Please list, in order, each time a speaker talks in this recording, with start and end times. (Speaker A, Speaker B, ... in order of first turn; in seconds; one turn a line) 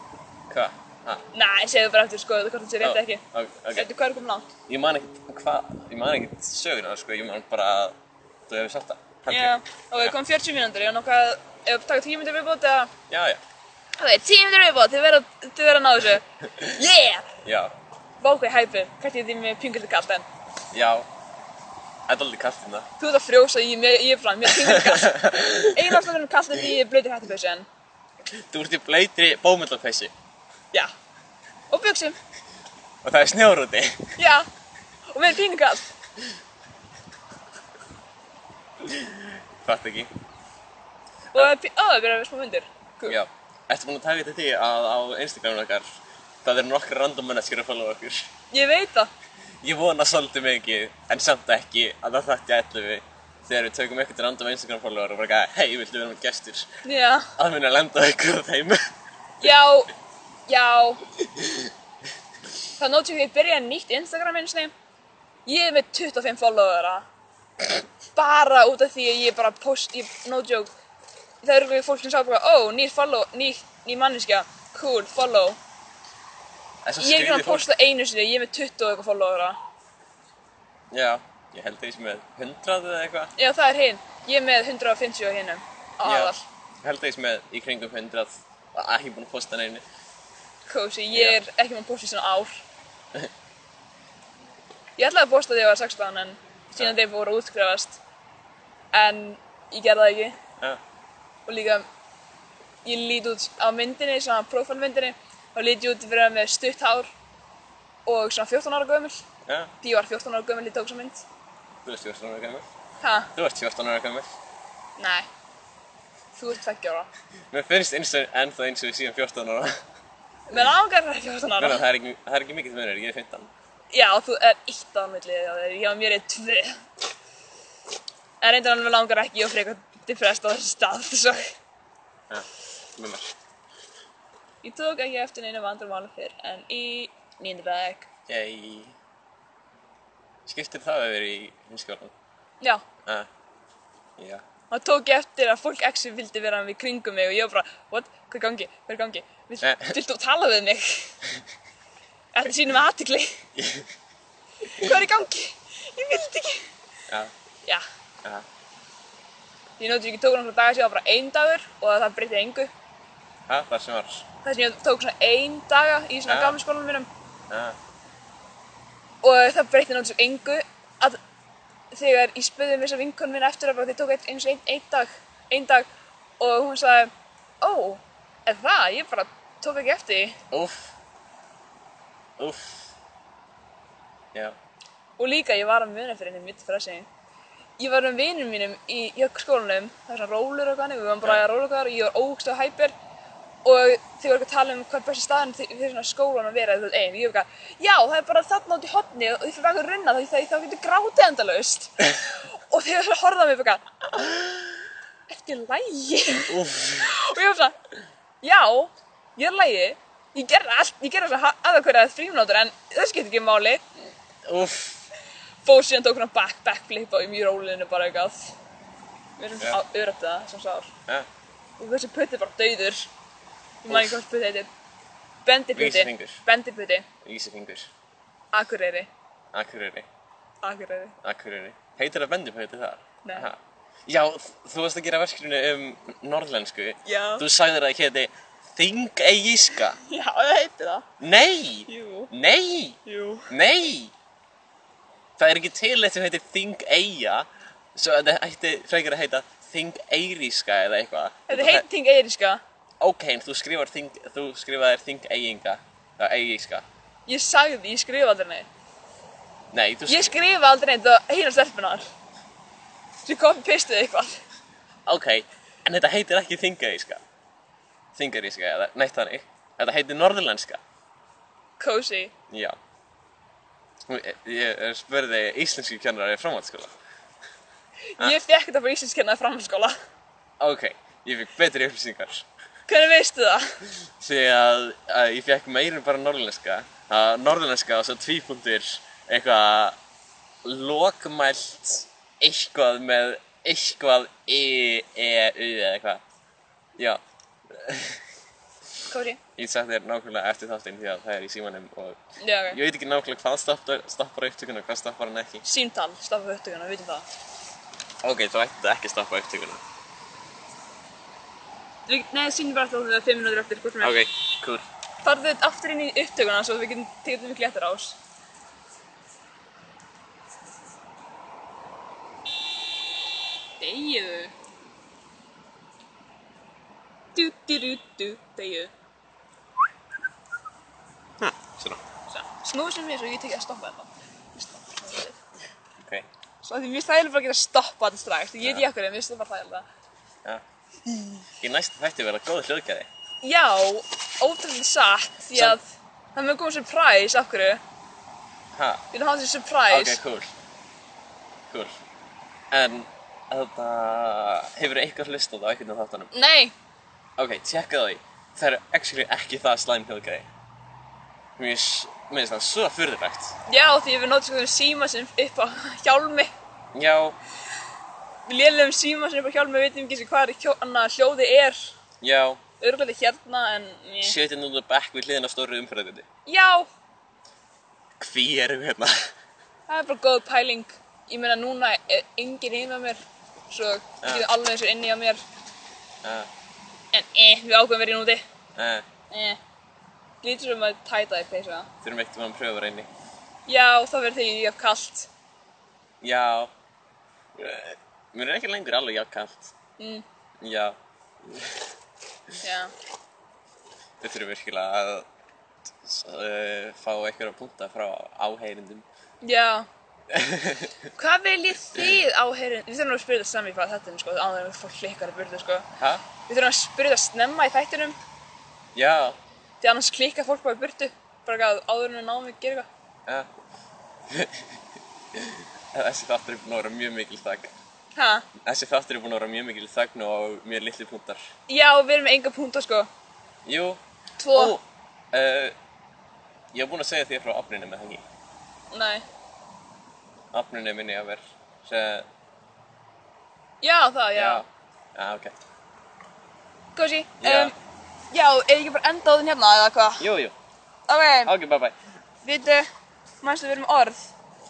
Speaker A: 0.5-1.2
Speaker B: 1.3-3.2
Speaker A: 2.8-3.9
Speaker B: 3.7-4.5
Speaker A: 4.7-7.9
Speaker A: 8.5-10.2
Speaker B: 9.3-12.9
Speaker A: 13.1-13.4
Speaker B: 14.0-17.3
Speaker A: 17.4-17.7
Speaker B: 18.2-20.2
Speaker A: 20.7-21.1
Speaker A: 22.1-22.9
Speaker B: 23.0-27.7
Speaker A: 24.5-26.1
Speaker A: 28.5-30.1
Speaker B: 31.7-32.2
Speaker A: 33.0-34.1
Speaker B: 34.2-34.5
Speaker B: 35.1-35.9
Speaker A: 38.8-40.1
Speaker B: 41.3-43.2
Speaker A: 43.1-48.3
Speaker B: 48.5-49.1
Speaker A: 49.6-56.7
Speaker B: 56.8-57.3
Speaker A: 57.4-58.8
Speaker B: 59.4-59.9
Speaker B: 60.5-61.0
Speaker A: 61.2-61.7
Speaker B: 62.8-64.7
Speaker B: 65.5-67.0
Speaker B: 68.2-70.7
Speaker B: 71.4-75.6
Speaker A: 76.8-77.7
Speaker B: 77.0-79.6
Speaker A: 80.9-83.3
Speaker B: 83.4-86.4
Speaker A: 86.0-89.8
Speaker B: 90.7-92.6
Speaker A: 91.1-91.4
Speaker B: 95.0-98.0
Speaker B: 98.9-100.4
Speaker B: 101.5-101.8
Speaker B: 102.8-107.1
Speaker B: 108.1-109.2
Speaker A: 109.5-109.7
Speaker B: 109.8-111.2
Speaker A: 111.8-112.7
Speaker B: 113.0-113.3
Speaker A: 113.3-114.3
Speaker B: 115.0-115.3
Speaker B: 116.3-117.1
Speaker A: 117.5-119.8
Speaker B: 120.5-121.8
Speaker A: 121.6-123.5
Speaker B: 123.9-126.8
Speaker B: 128.4-131.5
Speaker A: 132.3-133.3
Speaker B: 134.6-138.1
Speaker A: 138.3-138.9
Speaker A: 140.5-142.1
Speaker A: 144.2-144.4
Speaker B: 144.7-151.2
Speaker A: 149.6-150.0
Speaker B: 152.3-153.4
Speaker A: 153.6-153.9
Speaker B: 154.7-156.7
Speaker B: 159.8-162.7
Speaker A: 163.5-164.3
Speaker B: 164.4-167.1
Speaker A: 166.3-166.6
Speaker A: 167.5-167.8
Speaker B: 169.2-171.2
Speaker B: 171.9-175.9
Speaker B: 176.4-180.4
Speaker A: 180.5-180.9
Speaker A: 182.4-182.9
Speaker B: 185.2-187.1
Speaker B: 187.8-192.9
Speaker B: 193.6-203.8
Speaker B: 205.3-207.8
Speaker A: 206.5-207.2
Speaker B: 208.4-213.8
Speaker A: 214.4-215.1
Speaker B: 215.7-218.6
Speaker B: 219.4-220.9
Speaker B: 221.8-223.1
Speaker B: 223.8-224.7
Speaker A: 223.9-224.2
Speaker B: 225.4-227.1
Speaker A: 225.8-226.4
Speaker A: 227.2-227.9
Speaker B: 228.5-229.1
Speaker A: 229.5-230.1
Speaker B: 230.6-231.2
Speaker A: 231.2-240.0
Speaker B: 233.2-233.5
Speaker B: 237.1-237.5
Speaker B: 240.0-241.1
Speaker A: 241.2-243.0
Speaker B: 241.9-242.3
Speaker B: 243.1-243.5
Speaker A: 243.5-244.1
Speaker A: 245.4-251.8
Speaker B: 251.5-252.6
Speaker A: 253.0-256.9
Speaker B: 257.3-258.7
Speaker A: 259.7-260.4
Speaker B: 260.1-262.1
Speaker B: 263.2-264.4
Speaker A: 265.1-267.2
Speaker A: 268.1-270.8
Speaker B: 271.8-272.3
Speaker A: 272.5-272.8
Speaker A: 274.1-276.9
Speaker B: 278.2-279.9
Speaker A: 280.6-282.5
Speaker B: 282.9-283.7
Speaker A: 284.2-290.0
Speaker A: 290.6-296.2
Speaker A: 297.0-298.2
Speaker B: 299.1-299.4
Speaker A: 299.6-305.6
Speaker B: 302.4-302.8
Speaker B: 305.6-307.3
Speaker A: 308.2-309.8
Speaker B: 312.1-314.3
Speaker A: 314.0-314.9
Speaker B: 315.2-318.2
Speaker B: 323.8-324.5
Speaker B: 327.4-328.9
Speaker A: 331.4-332.0
Speaker B: 332.3-335.4
Speaker A: 336.0-336.3
Speaker B: 336.6-339.9
Speaker B: 341.1-341.4
Speaker A: 341.6-343.1
Speaker B: 343.4-345.8
Speaker B: 346.4-347.8
Speaker A: 348.7-349.0
Speaker B: 349.1-350.2
Speaker A: 349.9-350.5
Speaker A: 351.7-351.9
Speaker A: 352.7-356.3
Speaker B: 356.3-356.7
Speaker A: 357.4-360.5
Speaker A: 361.6-363.6
Speaker B: 363.7-366.5
Speaker A: 366.9-367.4
Speaker B: 368.5-372.0
Speaker A: 372.2-372.6
Speaker B: 372.8-374.4
Speaker A: 374.2-376.2
Speaker B: 376.5-376.9
Speaker A: 378.2-379.3
Speaker B: 379.9-385.4
Speaker A: 386.2-386.5
Speaker B: 387.1-388.4
Speaker A: 388.8-389.1
Speaker B: 389.3-389.6
Speaker B: 390.4-391.9
Speaker A: 392.0-393.1
Speaker B: 393.7-395.3
Speaker A: 396.2-396.7
Speaker A: 397.6-399.7
Speaker B: 400.0-400.2
Speaker A: 400.6-401.8
Speaker B: 402.6-402.9
Speaker A: 404.2-405.3
Speaker A: 406.0-409.1
Speaker B: 409.4-409.9
Speaker A: 410.3-411.1
Speaker B: 411.2-415.9
Speaker A: 416.0-416.2
Speaker B: 416.5-418.2
Speaker A: 418.9-419.4
Speaker B: 419.8-422.9
Speaker A: 424.3-424.8
Speaker A: 425.3-427.7
Speaker B: 428.2-428.5
Speaker A: 428.6-431.5
Speaker B: 431.7-433.1
Speaker A: 433.7-434.0
Speaker B: 434.4-434.8
Speaker A: 434.5-435.8
Speaker A: 436.7-438.2
Speaker B: 438.9-439.2
Speaker A: 440.5-442.3
Speaker B: 443.8-444.6
Speaker A: 444.4-445.5
Speaker B: 447.0-447.7
Speaker A: 447.4-447.7
Speaker B: 448.3-450.3
Speaker A: 450.2-450.6
Speaker B: 451.1-451.5
Speaker A: 451.4-451.9
Speaker B: 452.4-452.9
Speaker B: 453.4-454.3